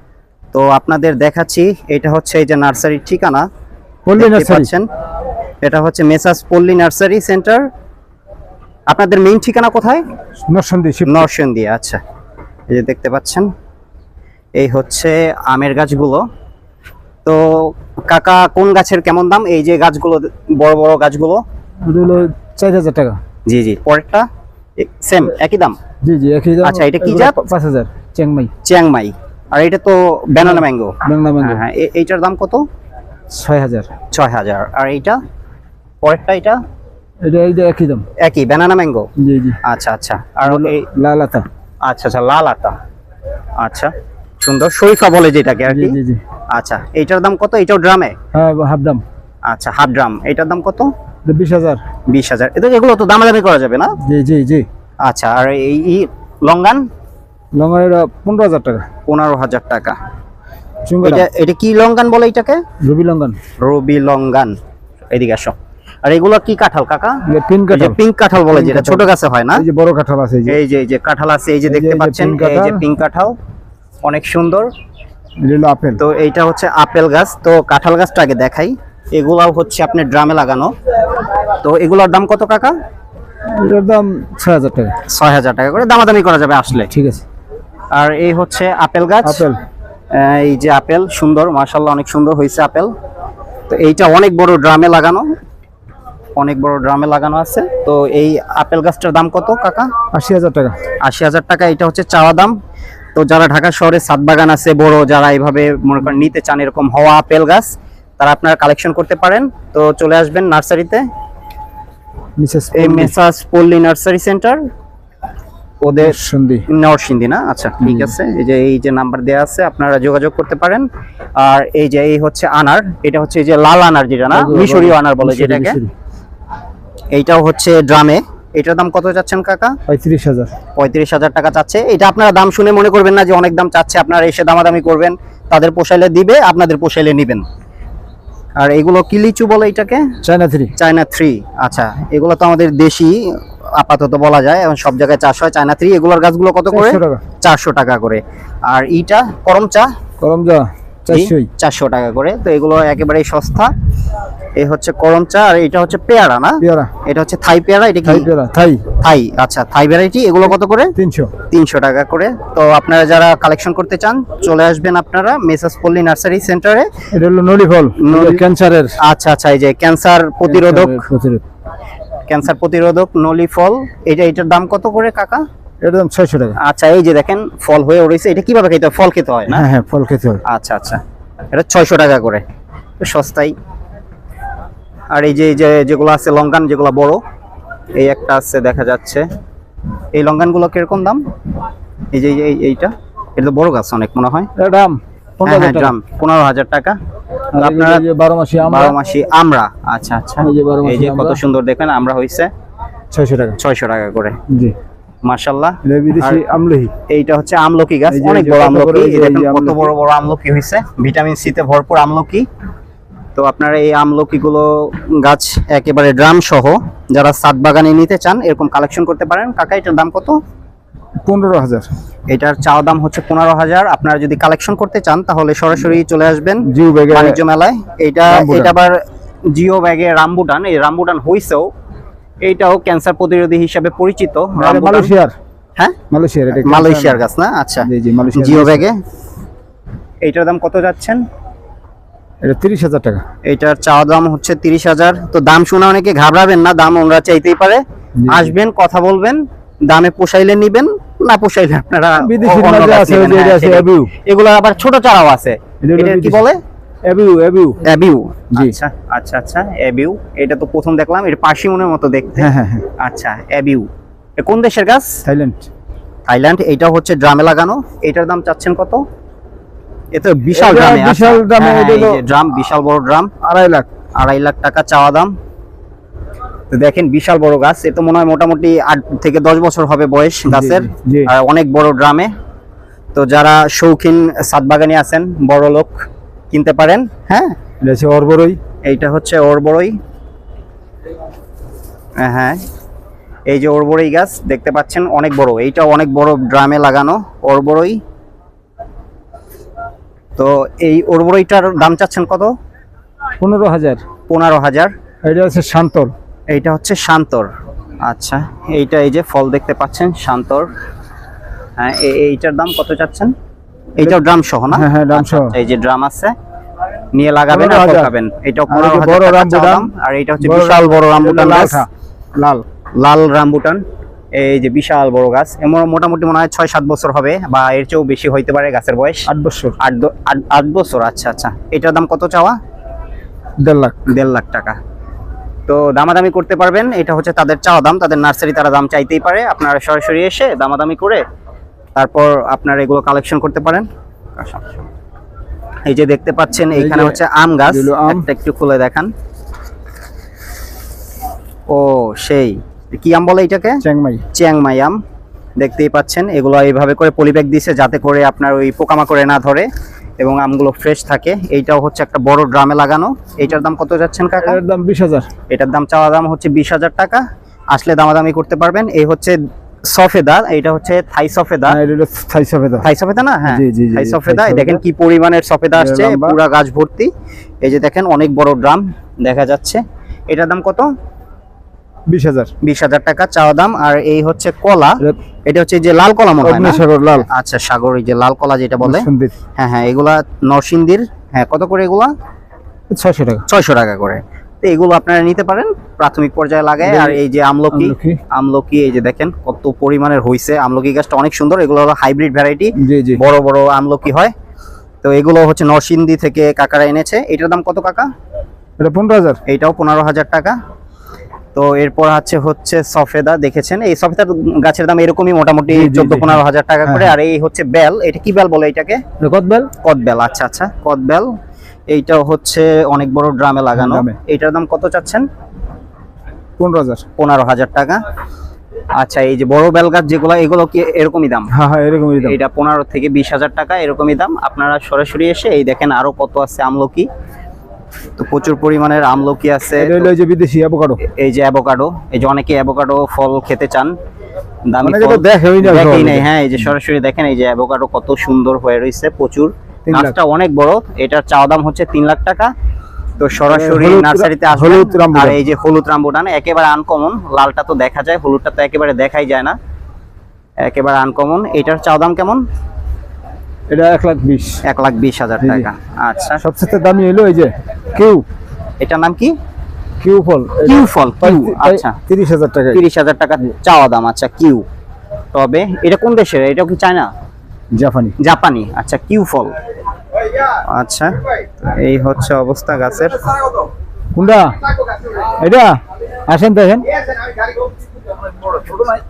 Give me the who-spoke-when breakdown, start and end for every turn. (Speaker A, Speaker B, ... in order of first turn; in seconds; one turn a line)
Speaker A: 0.5-3.5
Speaker B: 4.0-4.7
Speaker A: 4.2-4.9
Speaker A: 5.6-7.6
Speaker A: 8.9-10.0
Speaker B: 10.5-11.3
Speaker A: 11.1-12.0
Speaker A: 12.7-13.5
Speaker A: 14.6-16.2
Speaker A: 17.2-21.4
Speaker B: 21.8-23.2
Speaker A: 23.5-24.3
Speaker A: 24.8-25.8
Speaker B: 26.0-28.5
Speaker A: 26.6-27.4
Speaker A: 28.6-32.6
Speaker B: 30.5-31.6
Speaker B: 33.3-33.9
Speaker A: 34.1-35.2
Speaker A: 36.0-36.6
Speaker B: 37.2-38.1
Speaker A: 38.2-39.1
Speaker B: 39.2-39.6
Speaker A: 39.6-40.9
Speaker B: 40.5-41.5
Speaker A: 41.8-42.8
Speaker A: 43.6-46.0
Speaker B: 45.7-46.2
Speaker A: 46.5-48.1
Speaker B: 48.3-49.0
Speaker A: 49.5-50.9
Speaker B: 51.2-51.8
Speaker A: 52.1-54.0
Speaker B: 54.0-54.7
Speaker A: 55.0-56.9
Speaker B: 57.5-58.8
Speaker A: 59.1-60.0
Speaker B: 60.9-61.3
Speaker A: 61.0-62.6
Speaker B: 62.8-63.4
Speaker A: 63.6-64.5
Speaker A: 65.1-69.6
Speaker B: 67.3-70.6
Speaker A: 70.5-73.3
Speaker B: 71.7-72.8
Speaker A: 74.0-74.7
Speaker B: 75.4-76.0
Speaker A: 76.0-80.7
Speaker A: 81.6-82.7
Speaker B: 83.5-84.9
Speaker A: 85.0-86.9
Speaker B: 86.9-87.2
Speaker A: 87.9-89.5
Speaker B: 89.2-89.6
Speaker A: 90.1-92.9
Speaker A: 93.7-95.3
Speaker A: 96.4-99.9
Speaker B: 100.1-100.8
Speaker A: 101.0-102.5
Speaker A: 103.1-111.0
Speaker B: 112.4-113.1
Speaker A: 112.7-114.6
Speaker A: 115.8-120.8
Speaker B: 116.0-116.7
Speaker B: 117.8-118.1
Speaker A: 121.4-125.8
Speaker B: 124.3-125.9
Speaker A: 127.1-129.7
Speaker B: 129.9-130.5
Speaker A: 130.8-137.4
Speaker A: 138.6-140.1
Speaker B: 140.2-140.7
Speaker A: 140.8-149.9
Speaker B: 146.7-147.2
Speaker B: 150.2-151.5
Speaker A: 151.1-153.7
Speaker A: 154.6-158.3
Speaker B: 156.6-156.9
Speaker B: 158.0-158.8
Speaker A: 158.9-160.9
Speaker B: 160.9-161.3
Speaker A: 161.5-166.9
Speaker B: 167.1-169.0
Speaker A: 168.0-168.4
Speaker A: 169.0-171.1
Speaker B: 170.4-171.4
Speaker A: 172.3-175.4
Speaker B: 175.8-176.6
Speaker A: 176.6-179.6
Speaker B: 179.5-180.4
Speaker A: 180.4-181.0
Speaker A: 181.5-182.4
Speaker A: 183.0-183.5
Speaker A: 185.1-187.2
Speaker A: 187.9-189.2
Speaker A: 190.1-191.2
Speaker A: 192.1-194.5
Speaker B: 194.6-195.9
Speaker A: 195.4-197.0
Speaker B: 197.5-199.0
Speaker A: 197.6-198.0
Speaker A: 198.6-202.5
Speaker B: 200.4-201.4
Speaker B: 203.1-203.6
Speaker A: 203.6-204.4
Speaker B: 204.5-204.7
Speaker A: 205.2-206.4
Speaker B: 205.8-206.9
Speaker A: 207.1-212.4
Speaker B: 208.1-209.9
Speaker A: 213.3-220.4
Speaker B: 221.2-221.9
Speaker A: 222.3-231.7
Speaker B: 226.6-227.4
Speaker B: 228.3-228.7
Speaker A: 232.4-235.1
Speaker B: 234.6-235.3
Speaker B: 236.1-237.2
Speaker A: 236.5-239.0
Speaker B: 237.8-238.9
Speaker A: 240.2-241.2
Speaker B: 242.4-243.2
Speaker A: 243.4-256.6
Speaker B: 248.2-248.5
Speaker B: 252.2-254.1
Speaker B: 255.8-256.4
Speaker B: 257.0-257.8
Speaker A: 257.8-263.9
Speaker B: 262.4-262.9
Speaker A: 264.4-265.2
Speaker B: 265.2-265.7
Speaker A: 266.2-269.0
Speaker A: 270.1-273.3
Speaker B: 270.5-272.2
Speaker B: 273.4-273.9
Speaker A: 274.1-275.3
Speaker A: 276.7-282.3
Speaker B: 280.5-281.3
Speaker A: 283.1-287.6
Speaker B: 287.8-288.6
Speaker A: 288.8-289.9
Speaker A: 292.2-292.6
Speaker A: 293.5-298.0
Speaker A: 300.4-302.5
Speaker B: 303.4-304.0
Speaker A: 304.3-304.9
Speaker B: 305.2-306.1
Speaker A: 306.5-307.5
Speaker A: 308.0-310.7
Speaker A: 311.8-313.3
Speaker A: 314.0-316.3
Speaker B: 314.7-315.5
Speaker A: 317.1-321.8
Speaker B: 317.5-318.1
Speaker B: 318.7-319.9
Speaker B: 320.4-322.6
Speaker A: 323.0-323.8
Speaker A: 324.3-329.3
Speaker B: 329.3-329.8
Speaker A: 329.8-332.6
Speaker B: 333.6-334.0
Speaker A: 334.1-334.8
Speaker A: 335.7-341.2
Speaker A: 341.9-344.8
Speaker A: 345.9-349.1
Speaker B: 346.7-348.3
Speaker A: 351.7-353.8
Speaker B: 353.8-354.2
Speaker A: 354.3-355.0
Speaker A: 355.6-359.7
Speaker A: 360.2-364.6
Speaker B: 364.4-365.3
Speaker A: 365.5-371.8
Speaker B: 371.7-372.9
Speaker A: 372.8-377.1
Speaker B: 373.5-374.8
Speaker B: 375.8-376.4
Speaker A: 377.6-380.9
Speaker B: 382.1-382.5
Speaker A: 382.6-392.1
Speaker B: 386.4-387.3
Speaker B: 388.8-389.3
Speaker B: 392.9-393.4
Speaker A: 393.5-404.3
Speaker B: 396.8-397.2
Speaker B: 397.7-398.2
Speaker B: 402.8-403.2
Speaker A: 405.0-408.1
Speaker B: 408.8-409.4
Speaker A: 409.4-410.6
Speaker A: 411.5-419.0
Speaker B: 415.7-417.1
Speaker B: 419.2-419.7
Speaker A: 419.8-421.3
Speaker A: 421.9-425.2
Speaker B: 423.8-424.1
Speaker B: 426.6-427.0
Speaker A: 427.2-428.0
Speaker A: 429.0-431.5
Speaker B: 431.5-432.4
Speaker A: 432.2-437.1
Speaker A: 438.2-440.1
Speaker B: 439.8-441.0
Speaker A: 441.0-443.9
Speaker A: 444.7-452.5
Speaker B: 444.8-446.3
Speaker B: 449.9-450.1
Speaker A: 453.2-459.6
Speaker B: 453.5-455.4
Speaker A: 460.6-462.4
Speaker B: 463.7-464.6
Speaker A: 464.6-466.4
Speaker B: 465.4-465.7
Speaker B: 466.4-468.2
Speaker A: 468.8-469.3
Speaker B: 470.0-472.8
Speaker A: 470.6-471.9
Speaker A: 472.7-474.6
Speaker A: 475.3-477.1
Speaker B: 477.7-478.2
Speaker A: 478.2-479.5
Speaker A: 480.5-483.2
Speaker B: 484.1-484.6
Speaker B: 485.2-486.9
Speaker B: 488.6-488.9